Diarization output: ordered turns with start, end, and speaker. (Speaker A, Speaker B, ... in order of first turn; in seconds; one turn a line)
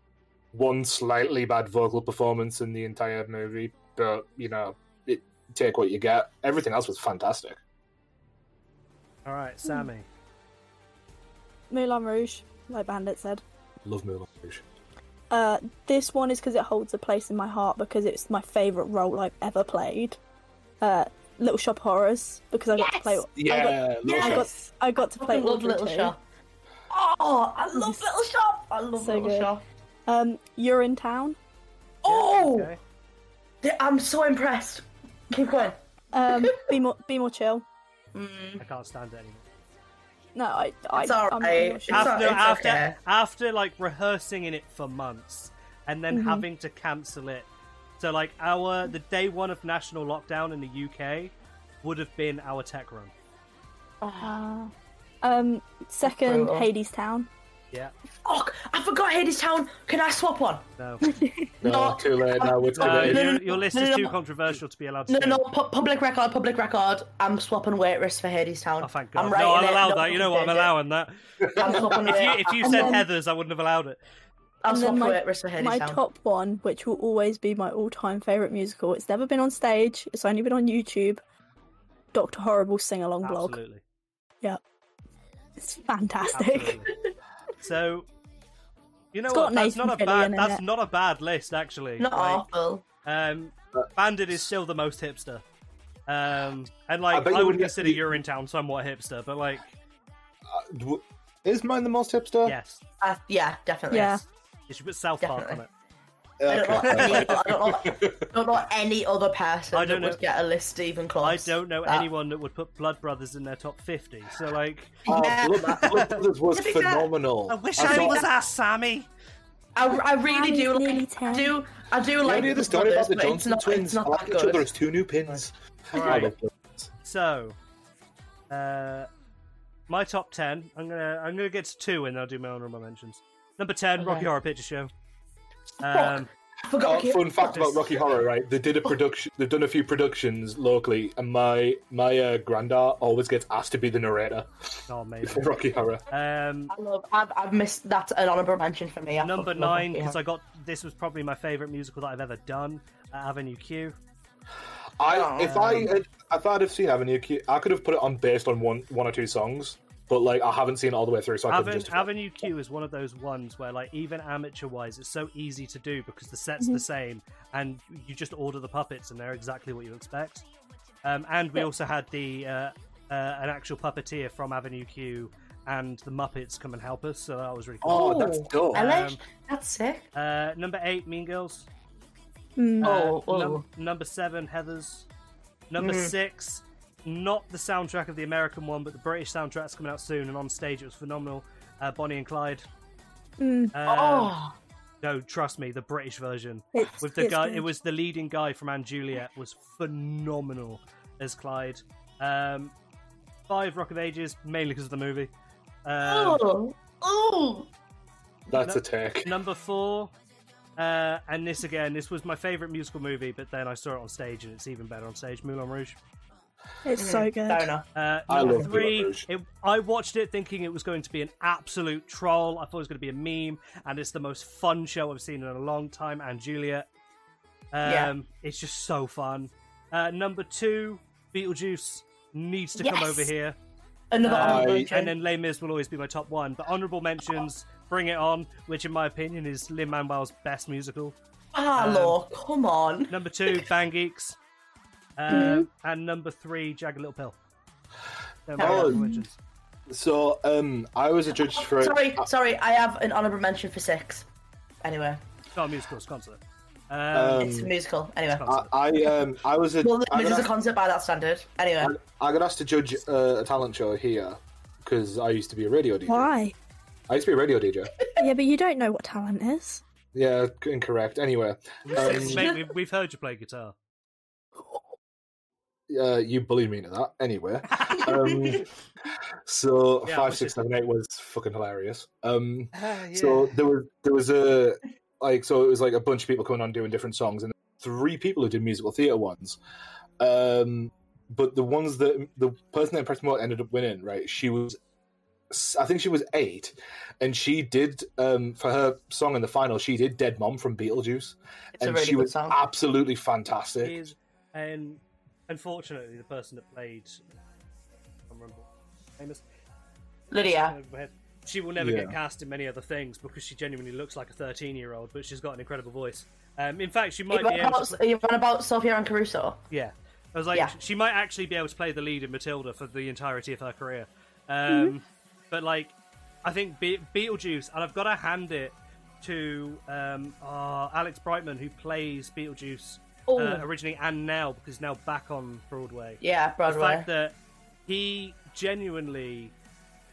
Speaker A: 0.5-7.6
Speaker B: 9.2-10.1
Speaker C: 11.7-13.4
Speaker A: 13.8-14.7
Speaker C: 15.3-20.2
Speaker C: 20.8-26.1
Speaker D: 22.8-23.2
Speaker A: 23.4-24.5
Speaker D: 24.1-24.6
Speaker D: 25.2-26.2
Speaker D: 26.9-29.6
Speaker C: 27.7-28.0
Speaker C: 29.0-29.5
Speaker C: 30.1-31.4
Speaker D: 32.0-32.7
Speaker B: 32.0-32.8
Speaker D: 33.6-35.8
Speaker C: 36.1-37.6
Speaker D: 38.1-38.6
Speaker B: 38.6-39.4
Speaker C: 40.4-42.2
Speaker D: 41.0-43.0
Speaker B: 41.9-47.5
Speaker C: 46.1-46.5
Speaker B: 48.0-53.1
Speaker D: 54.0-54.4
Speaker C: 54.2-54.7
Speaker C: 55.2-57.3
Speaker D: 56.0-56.7
Speaker D: 58.2-60.6
Speaker B: 60.8-61.0
Speaker C: 61.0-61.5
Speaker A: 61.6-63.4
Speaker D: 61.6-64.2
Speaker B: 62.7-65.4
Speaker D: 65.1-70.7
Speaker B: 68.8-71.1
Speaker A: 71.4-72.0
Speaker D: 71.6-73.0
Speaker B: 71.6-74.0
Speaker C: 72.6-73.0
Speaker D: 74.6-76.0
Speaker C: 74.7-81.2
Speaker C: 82.1-83.6
Speaker B: 83.2-83.8
Speaker C: 85.6-86.8
Speaker B: 86.3-86.9
Speaker B: 87.6-88.1
Speaker B: 89.1-92.5
Speaker C: 89.3-90.6
Speaker D: 92.0-92.8
Speaker B: 93.0-95.4
Speaker B: 96.1-99.8
Speaker A: 97.1-98.1
Speaker A: 100.5-102.6
Speaker B: 102.4-102.8
Speaker D: 103.0-104.2
Speaker C: 103.9-104.2
Speaker B: 104.7-105.7
Speaker D: 105.2-105.6
Speaker A: 106.4-108.3
Speaker D: 106.5-112.1
Speaker B: 106.8-107.3
Speaker B: 109.7-110.2
Speaker B: 111.2-115.0
Speaker D: 115.0-115.9
Speaker A: 115.1-118.2
Speaker B: 115.7-116.2
Speaker D: 116.5-117.1
Speaker B: 117.5-119.1
Speaker D: 117.8-118.3
Speaker D: 119.8-124.7
Speaker C: 120.3-121.6
Speaker A: 122.2-126.9
Speaker B: 125.9-126.3
Speaker D: 126.0-126.2
Speaker B: 127.0-127.6
Speaker B: 128.5-129.1
Speaker B: 129.9-134.9
Speaker D: 134.0-134.3
Speaker B: 135.8-136.3
Speaker D: 135.8-137.8
Speaker A: 136.8-146.1
Speaker B: 137.5-137.8
Speaker B: 144.9-145.5
Speaker B: 146.1-146.7
Speaker D: 146.7-150.2
Speaker B: 149.2-154.0
Speaker A: 155.0-162.4
Speaker D: 155.0-155.9
Speaker B: 161.5-170.4
Speaker B: 171.1-179.2
Speaker A: 177.8-178.8
Speaker D: 177.9-180.1
Speaker B: 180.2-181.7
Speaker C: 182.6-182.9
Speaker D: 182.8-183.6
Speaker B: 182.8-185.1
Speaker B: 185.7-192.6
Speaker D: 185.8-186.1
Speaker C: 193.4-193.7
Speaker B: 193.7-194.3
Speaker D: 193.9-194.6
Speaker B: 195.0-202.7
Speaker C: 196.8-197.7
Speaker B: 203.5-205.3
Speaker B: 205.8-206.4
Speaker D: 206.0-207.7
Speaker A: 208.5-209.3
Speaker B: 208.6-210.1
Speaker B: 210.8-216.0
Speaker C: 216.8-217.7
Speaker D: 217.0-217.9
Speaker B: 217.9-226.9
Speaker A: 218.3-219.3
Speaker B: 227.7-233.6
Speaker D: 227.8-228.1
Speaker D: 232.8-233.3
Speaker D: 234.1-235.1
Speaker B: 234.2-241.2
Speaker A: 234.3-234.9
Speaker D: 241.5-243.7
Speaker B: 241.8-242.2
Speaker B: 243.1-244.4
Speaker B: 245.2-247.4
Speaker D: 245.3-245.6
Speaker C: 245.3-245.7
Speaker B: 248.5-249.4
Speaker A: 248.6-249.0
Speaker D: 248.6-249.1
Speaker A: 249.9-252.3
Speaker D: 251.5-254.3
Speaker D: 254.8-255.2
Speaker B: 255.6-257.5
Speaker A: 257.1-257.7
Speaker D: 257.4-258.5
Speaker B: 258.3-258.7
Speaker A: 258.5-260.5
Speaker D: 259.8-261.9
Speaker A: 261.8-266.3
Speaker C: 266.1-266.6
Speaker A: 267.1-267.9
Speaker C: 268.2-269.8
Speaker A: 270.1-272.5
Speaker B: 271.8-273.8
Speaker D: 271.9-272.7
Speaker A: 275.9-278.7
Speaker D: 277.9-278.6
Speaker A: 279.4-289.6
Speaker B: 280.1-280.6
Speaker B: 282.7-283.6
Speaker A: 290.2-294.8
Speaker A: 295.5-304.0
Speaker D: 301.8-302.6
Speaker B: 303.8-307.2
Speaker B: 308.3-308.7
Speaker B: 309.2-309.4
Speaker D: 310.3-310.8
Speaker B: 310.4-318.0
Speaker A: 311.8-312.2
Speaker D: 317.3-319.6
Speaker B: 319.7-337.4
Speaker D: 333.3-333.7
Speaker D: 336.2-337.1
Speaker B: 337.9-339.5